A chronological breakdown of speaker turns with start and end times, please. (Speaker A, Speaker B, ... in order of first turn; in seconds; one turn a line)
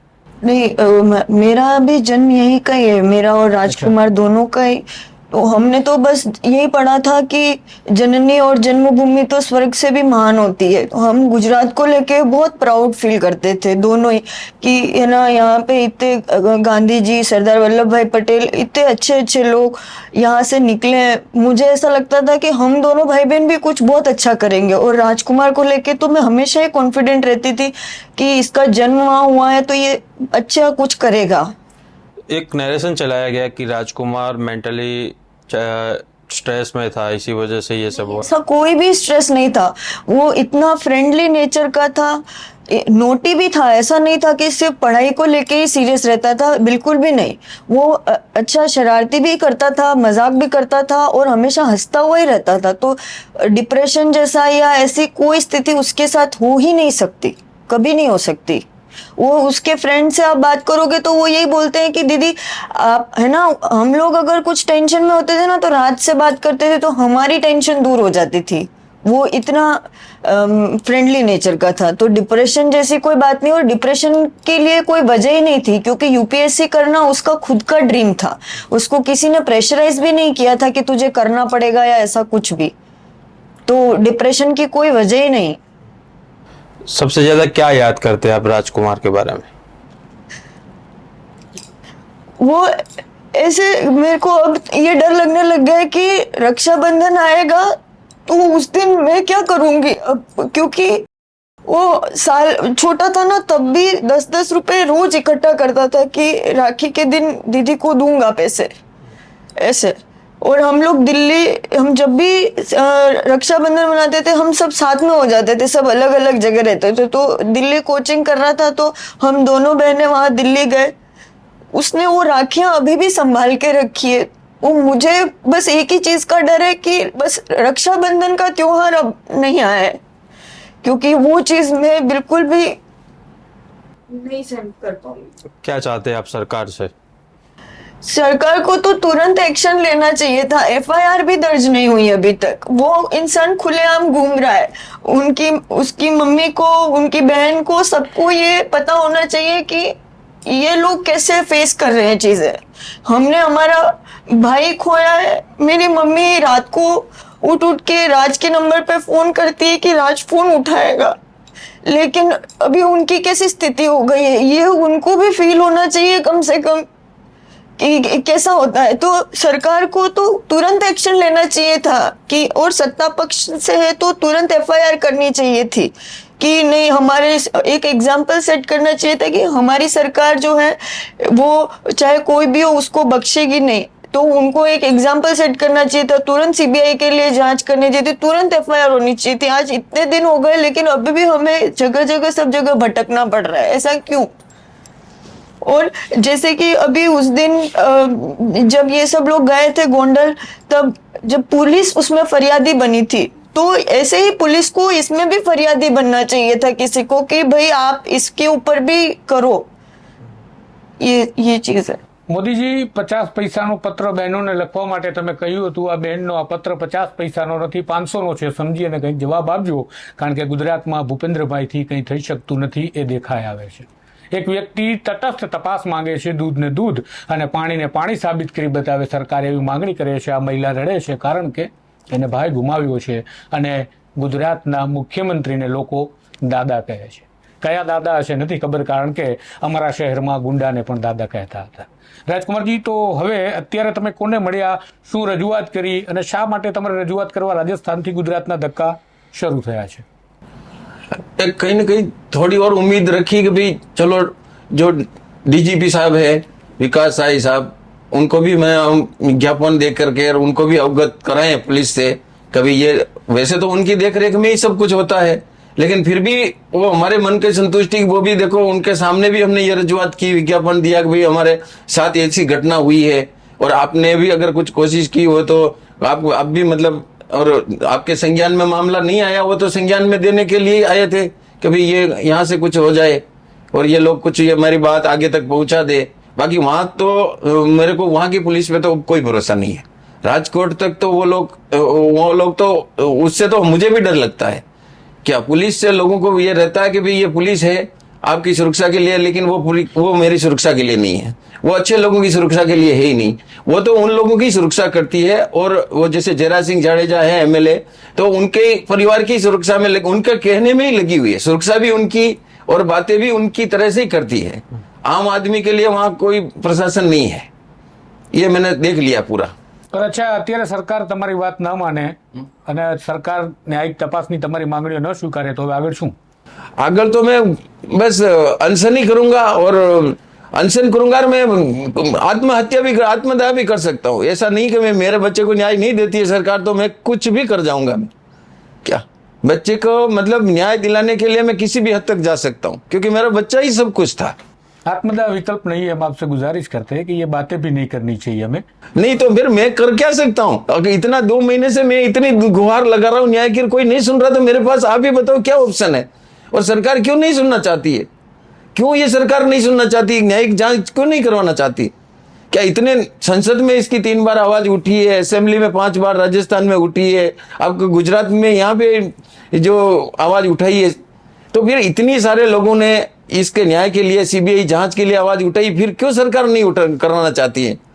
Speaker A: 0.4-31.5
Speaker B: 3.7-3.9
Speaker C: 32.3-38.2
Speaker A: 38.2-58.6
Speaker A: 59.2-82.7
Speaker A: 83.7-85.6
Speaker C: 86.9-89.5
Speaker A: 92.4-92.7
Speaker A: 93.3-97.7
Speaker A: 98.3-101.0
Speaker A: 101.7-108.7
Speaker A: 109.6-120.9
Speaker A: 121.7-130.0
Speaker A: 130.8-132.8
Speaker A: 134.2-135.1
Speaker C: 135.6-136.9
Speaker A: 138.0-149.9
Speaker A: 150.4-161.2
Speaker A: 161.8-166.8
Speaker A: 167.8-194.3
Speaker A: 195.6-209.7
Speaker A: 211.0-212.0
Speaker B: 212.3-250.0
Speaker D: 251.4-294.6
Speaker D: 295.2-317.5
Speaker D: 318.3-319.5
Speaker B: 319.9-326.1
Speaker D: 326.8-338.1
Speaker D: 338.8-344.3
Speaker B: 344.9-348.6
Speaker D: 349.0-358.1
Speaker D: 358.7-361.9
Speaker D: 362.5-371.0
Speaker D: 371.5-377.8